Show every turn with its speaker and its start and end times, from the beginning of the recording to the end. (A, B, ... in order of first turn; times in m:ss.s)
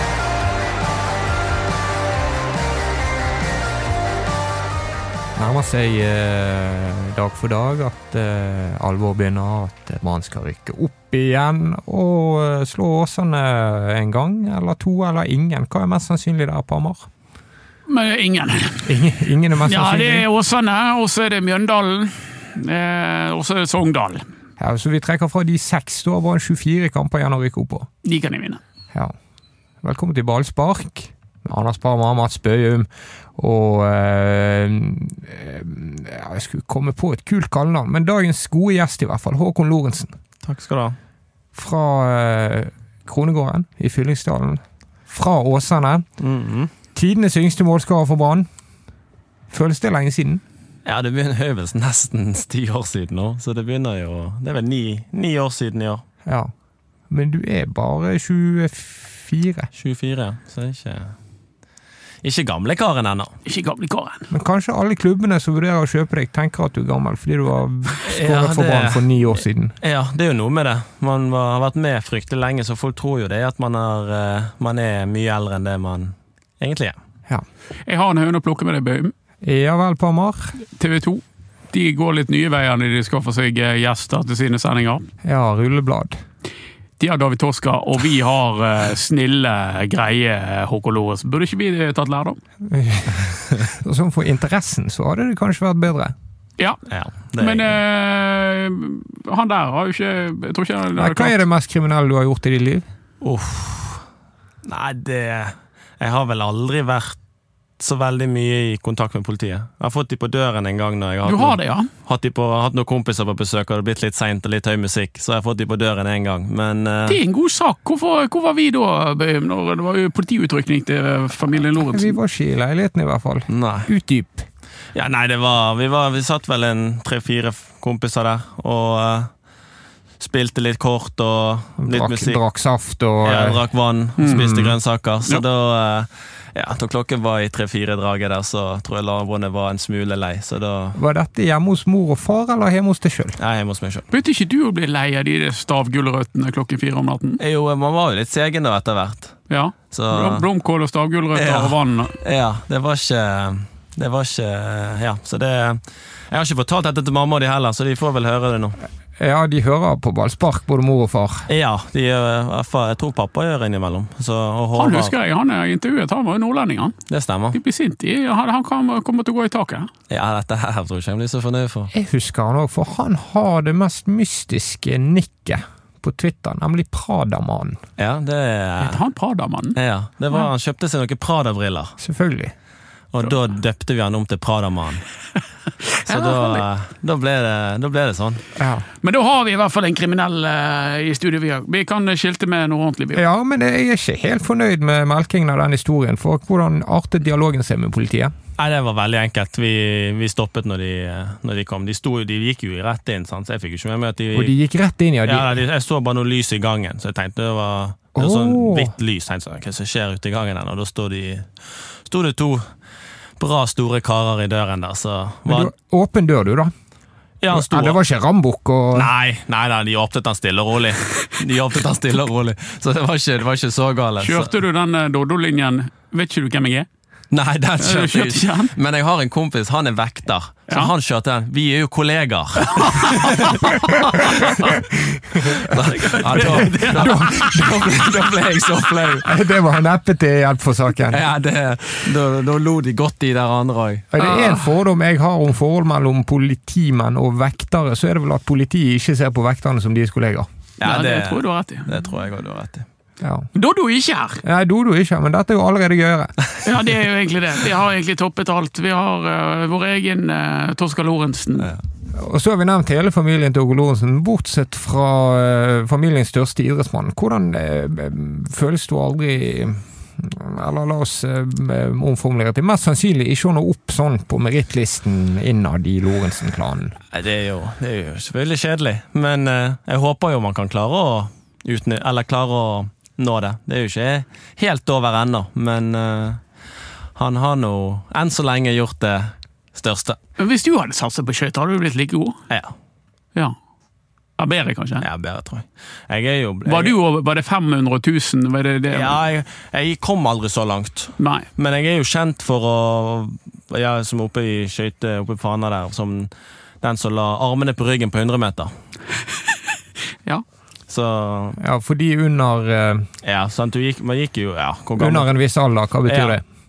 0:05.4-0:17.1 A
0:17.9-0:18.9 B
0:18.8-0:20.2 A
0:19.6-0:24.2 B
0:24.6-0:27.9 A
0:28.0-0:28.6 B
0:29.8-0:40.1 A
0:40.4-0:41.0 C
0:41.5-0:46.0 A
0:46.2-0:46.7 C
0:46.9-0:48.5 A
0:49.5-0:50.4 A
0:50.8-0:56.0 C
0:56.2-0:56.5 A
0:57.1-0:59.7 A
0:59.7-1:01.1 C
1:02.2-1:03.3 C
1:03.4-1:04.3 B
1:04.3-1:09.7 A
1:08.0-1:09.2 C
1:09.8-1:17.0 C
1:17.8-1:19.1 B
1:19.4-1:20.5 A
1:20.8-1:25.0 B
1:25.2-1:26.2 A
1:27.0-1:32.4 B
1:32.6-1:36.1 A
1:36.9-1:37.8 C
1:37.4-1:41.4 B
1:41.0-1:42.8 A
1:43.2-1:44.0 C
1:44.6-1:47.2 C
1:47.8-1:57.2 C
1:51.2-1:51.9 B
1:57.1-2:02.2 B
2:01.8-2:04.5 A
2:03.5-2:03.9 C
2:04.9-2:09.3 C
2:10.2-2:12.4 C
2:11.8-2:13.6 A
2:13.2-2:21.0 C
2:14.2-2:14.7 B
2:20.9-2:23.4 A
2:23.4-2:24.1 C
2:24.1-2:27.4 B
2:27.4-2:29.4 C
2:29.5-2:32.1 B
2:29.9-2:30.4 C
2:31.3-2:38.8 C
2:39.2-2:41.5 A
2:41.5-2:45.1 C
2:44.8-2:47.0 B
2:47.1-2:47.6 C
2:47.5-2:49.9 B
2:50.1-2:51.9 C
2:51.9-2:57.8 A
2:58.0-2:59.0 C
2:58.8-2:59.8 B
2:59.7-3:02.0 C
3:02.0-3:02.5 A
3:03.1-3:05.0 C
3:05.8-3:06.6 B
3:06.1-3:08.4 C
3:08.6-3:08.8 A
3:09.0-3:13.2 B
3:13.1-3:18.3 A
3:18.6-3:24.5 C
3:24.3-3:25.6 A
3:25.2-3:32.6 C
3:28.2-3:28.9 A
3:33.4-3:35.7 C
3:35.5-3:36.7 A
3:37.4-3:38.0 C
3:37.5-3:39.1 A
3:38.9-3:44.5 C
3:44.2-3:46.9 B
3:47.3-3:54.8 C
3:47.8-3:48.7 B
3:52.6-3:54.7 B
3:54.8-3:58.1 A
3:55.4-3:59.3 C
3:56.3-3:57.8 B
3:59.2-4:01.2 A
4:01.1-4:04.1 C
4:04.1-4:10.5 A
4:04.2-4:04.6 B
4:10.8-4:12.8 C
4:10.8-4:12.0 B
4:13.2-4:13.5 A
4:13.5-4:14.4 B
4:14.4-4:16.3 A
4:16.6-4:21.7 B
4:22.1-4:37.0 A
4:37.1-4:46.4 C
4:47.2-4:50.2 C
4:50.4-4:52.4 B
4:52.5-4:52.7 C
4:54.4-4:55.0 B
4:55.0-4:56.9 C
4:56.6-4:59.2 B
4:58.9-5:06.3 C
5:01.2-5:01.5 B
5:06.8-5:08.7 C
5:10.9-5:11.6 C
5:11.6-5:13.1 A
5:13.2-5:15.3 C
5:15.0-5:16.4 A
5:16.0-5:16.4 C